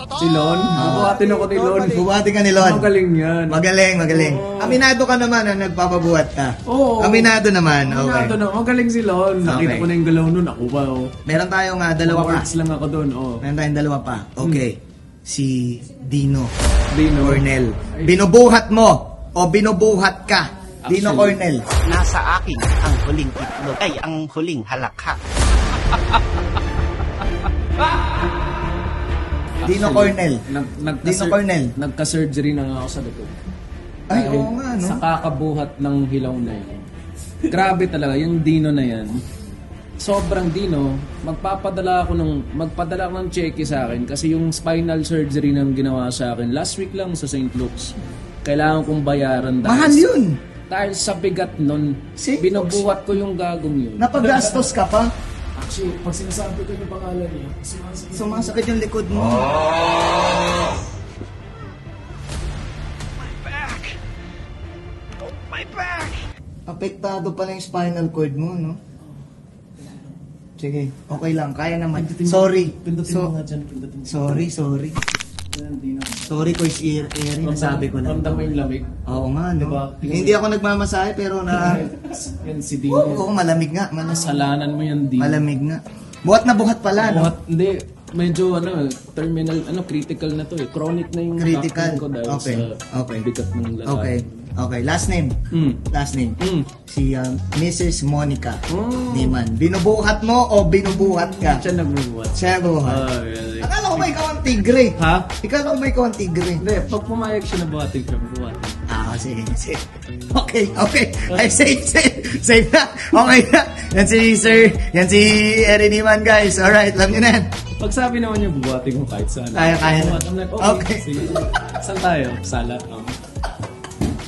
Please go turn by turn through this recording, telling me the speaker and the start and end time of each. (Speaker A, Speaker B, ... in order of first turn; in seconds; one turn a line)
Speaker A: 0.1-4.8
Speaker B: 0.7-1.2
Speaker B: 1.8-2.9
Speaker B: 3.5-8.4
Speaker A: 6.7-11.1
Speaker B: 9.4-9.9
Speaker B: 11.2-12.5
Speaker A: 12.0-13.4
Speaker B: 13.4-16.5
Speaker A: 16.9-18.1
Speaker B: 17.2-21.6
Speaker A: 20.8-21.4
Speaker C: 21.8-25.2
Speaker A: 29.6-33.3
Speaker B: 29.6-30.4
Speaker B: 31.0-31.7
Speaker B: 34.1-35.0
Speaker A: 34.1-36.8
Speaker A: 37.5-39.2
Speaker A: 40.0-50.1
Speaker B: 49.6-50.4
Speaker A: 50.7-54.7
Speaker B: 52.2-52.9
Speaker B: 54.0-55.1
Speaker A: 55.5-58.5
Speaker B: 58.1-59.6
Speaker A: 65.6-66.1
Speaker B: 66.7-68.8
Speaker B: 70.6-73.3
Speaker A: 71.9-74.5
Speaker B: 74.0-75.0
Speaker A: 75.5-76.5
Speaker B: 76.3-78.5
Speaker A: 77.4-79.0
Speaker B: 79.1-81.9
Speaker A: 79.5-80.4
Speaker A: 81.5-83.3
Speaker B: 82.9-84.5
Speaker A: 84.0-85.4
Speaker B: 85.2-87.3
Speaker A: 87.0-94.5
Speaker B: 91.3-93.2
Speaker B: 93.8-95.3
Speaker A: 95.5-95.8
Speaker B: 95.9-101.7
Speaker A: 96.4-96.7
Speaker A: 98.7-99.4
Speaker A: 101.0-104.1
Speaker B: 102.3-103.0
Speaker B: 103.6-106.6
Speaker A: 105.0-105.3
Speaker A: 106.6-108.8
Speaker B: 108.9-117.5
Speaker A: 117.8-123.2
Speaker B: 119.5-121.0